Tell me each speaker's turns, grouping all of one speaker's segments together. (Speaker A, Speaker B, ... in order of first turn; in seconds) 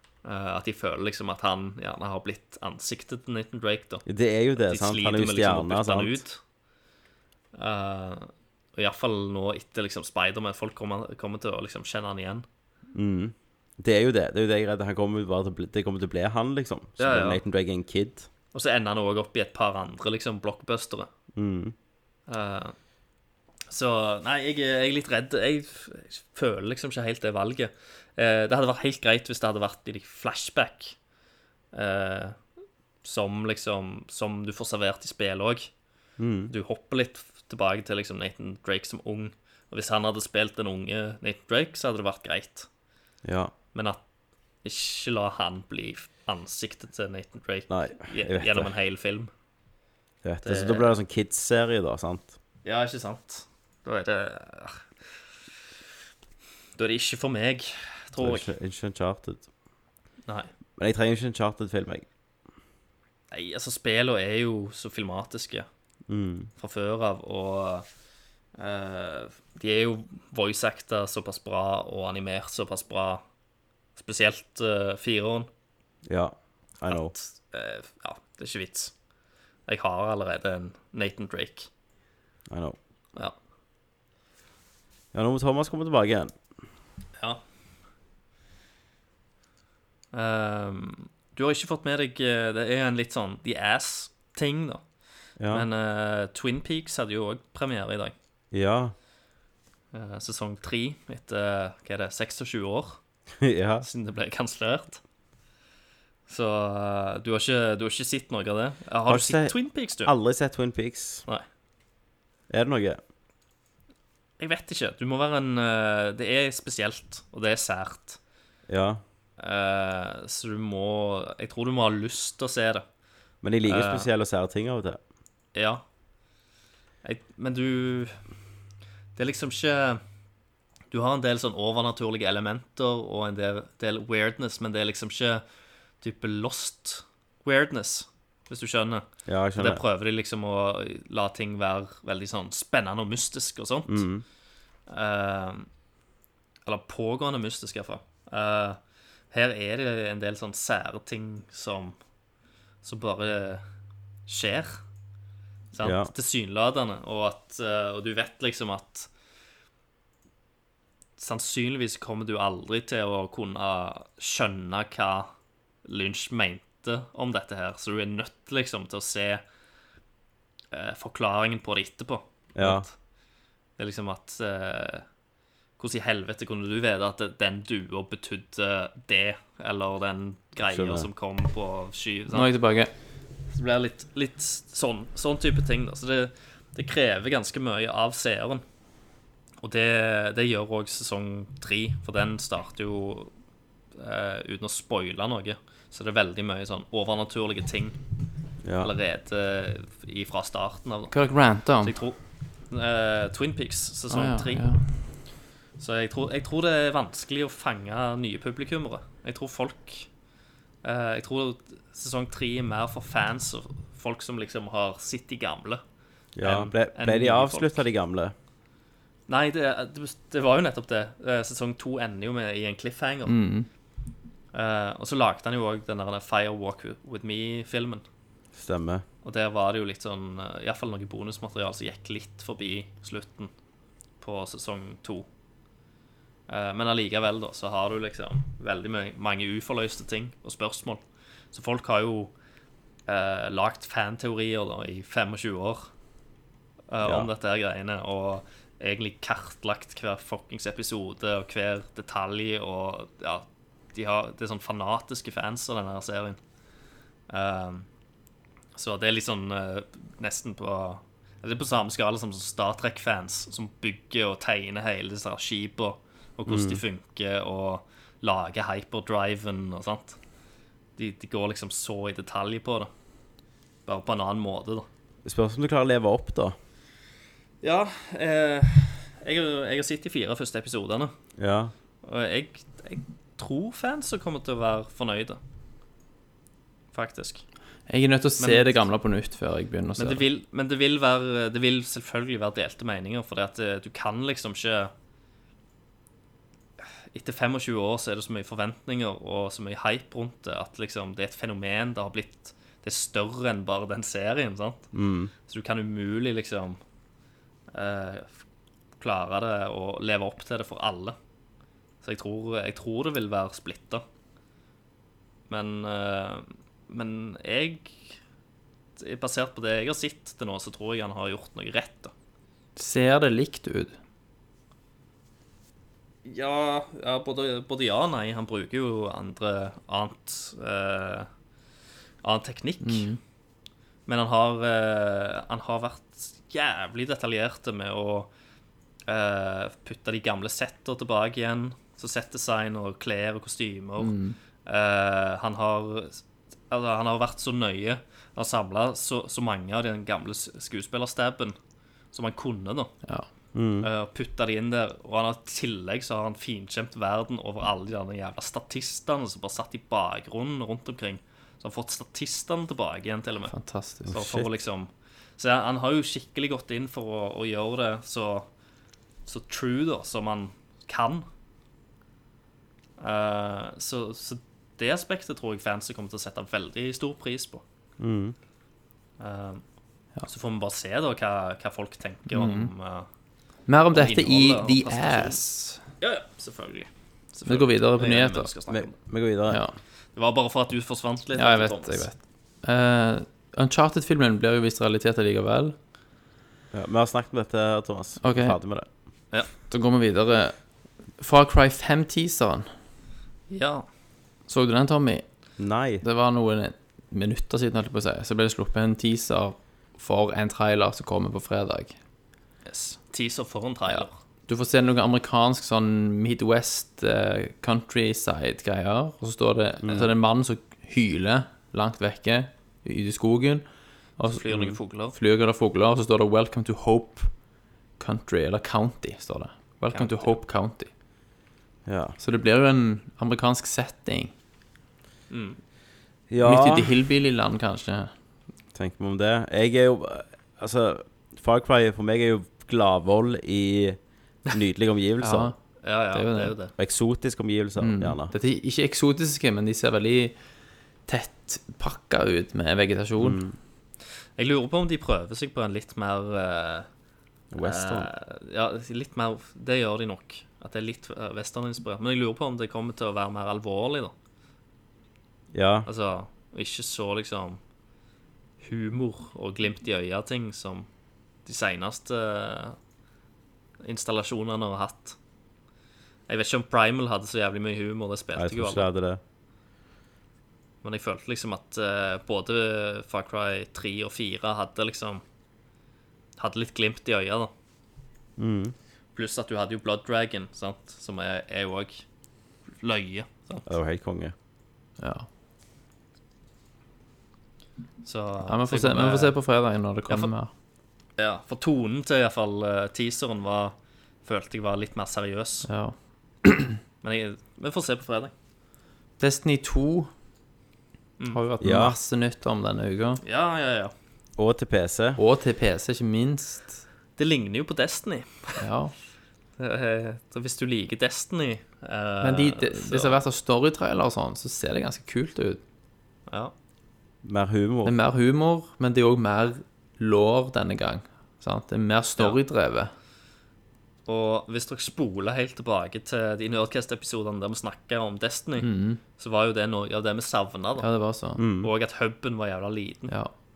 Speaker A: 0.2-4.0, 4.6-6.4, 7.5-12.4, 17.0-17.4, 18.5-21.1, 22.3-22.8, 23.7-31.0, 31.7-32.4, 33.0-35.7, 36.5-42.7, 43.7-44.0, 44.6-49.3, 50.4-51.0, 52.6-54.8, 56.8-58.5, 63.3-65.7, 66.6-67.9, 68.6-73.2, 74.0-75.5, 76.9-78.9, 79.7-81.7, 90.1-94.8, 95.5-98.1, 99.9-103.0, 103.8-105.0, 106.3-110.1, 114.4-118.2, 119.4-122.8, 123.7-124.1, 125.5-125.8, 127.0-128.2, 129.2-130.0, 130.9-135.4, 136.0-139.1, 139.6-144.1, 144.9-145.7, 146.7-148.8, 149.3-151.9, 152.8-153.6, 154.3-154.8, 155.7-159.1, 161.2-165.3, 165.8-169.4, 170.7-172.9, 173.8-175.1, 175.8-182.5, 183.5-188.6, 189.6-193.3, 194.0-198.0, 198.8-201.2, 201.8-202.2, 202.7-204.7, 205.8-210.1, 210.8-215.8, 216.4-217.8, 219.3-223.4, 224.5-228.0, 229.2-233.5, 234.2-235.3, 236.5-241.0, 241.5-242.3, 243.1-245.9, 246.9-256.4, 257.3-257.9, 258.8-270.2, 271.0-272.9, 273.9-274.9, 277.6-281.1, 282.0-285.4, 286.9-287.4, 288.4-288.8, 290.0-294.9, 297.1-304.9, 305.5-306.8, 307.7-308.3, 309.0-311.2, 312.0-314.0, 315.5-318.2, 319.0-322.1, 326.2-331.3, 332.2-333.1, 334.1-338.3, 339.1-344.1, 344.7-351.6, 352.1-352.9, 353.8-363.5, 364.1-368.5, 369.3-371.3, 373.0-377.6, 379.2-379.6, 380.2-383.1, 383.9-385.4, 386.0-389.0, 390.2-392.1, 403.5-403.9, 412.7-414.1, 424.3-425.1, 429.9-430.3, 435.3-435.6, 445.8-446.7, 454.4-456.9, 457.6-464.1, 465.9-467.6, 468.6-470.9, 471.5-472.8, 473.8-475.2, 476.3-478.9, 480.8-485.2, 486.4-487.5, 489.1-492.0, 492.8-493.7, 498.0-499.4, 501.2-505.7, 507.0-508.3, 513.2-513.9, 517.2-518.6, 519.6-523.2, 534.1-540.9, 541.6-543.1
Speaker B: 4.1-6.2, 12.9-18.3, 21.4-21.8, 36.2-36.5, 43.2-43.5, 47.7-48.7, 50.2-52.4, 58.2-59.5, 60.8-62.0, 66.1-66.5, 76.1-77.1, 82.5-82.8, 85.1-86.3, 95.4-95.7, 98.5-99.0, 103.4-103.9, 109.1-111.2, 112.5-113.0, 118.7-119.0, 123.4-125.0, 139.3-139.8, 143.9-144.2, 155.8-156.1, 172.6-172.9, 180.7-181.1, 198.6-198.9, 216.4-218.3, 228.5-229.0, 247.0-247.3, 266.5-266.8, 275.2-276.6, 281.4-281.7, 304.9-305.3, 353.5-353.9, 364.1-364.5, 378.0-378.4, 388.7-389.7, 396.7-398.9, 405.6-406.0, 419.8-420.1, 431.9-432.2, 436.3-436.9, 438.8-445.5, 446.8-448.3, 453.2-453.5, 457.5-458.1, 465.5-465.9, 478.4-479.2, 488.4-488.8, 493.7-494.3, 511.6-512.0, 514.4-515.2, 527.2-528.0, 541.4-541.7
Speaker C: 182.3-182.9, 201.1-201.9, 204.1-204.8, 223.3-223.7, 287.9-290.2, 322.8-324.0, 332.8-333.2, 344.0-344.4, 363.5-364.1, 382.3-382.7, 383.7-385.8, 387.5-388.5, 389.5-389.8, 391.4-395.8, 398.2-398.6, 399.7-400.6, 401.2-402.7, 404.5-405.3, 406.0-411.9, 413.9-423.7, 424.2-427.3, 428.0-430.9, 432.2-434.3, 436.4-438.1, 445.2-445.6, 446.1-446.6, 447.8-450.4, 451.1-453.4, 495.0-495.3, 498.4-500.5, 505.6-506.8, 509.2-510.1, 511.3-513.2, 515.2-516.8, 518.6-518.9, 522.2-525.6, 527.9-532.9, 538.6-539.0, 540.8-541.4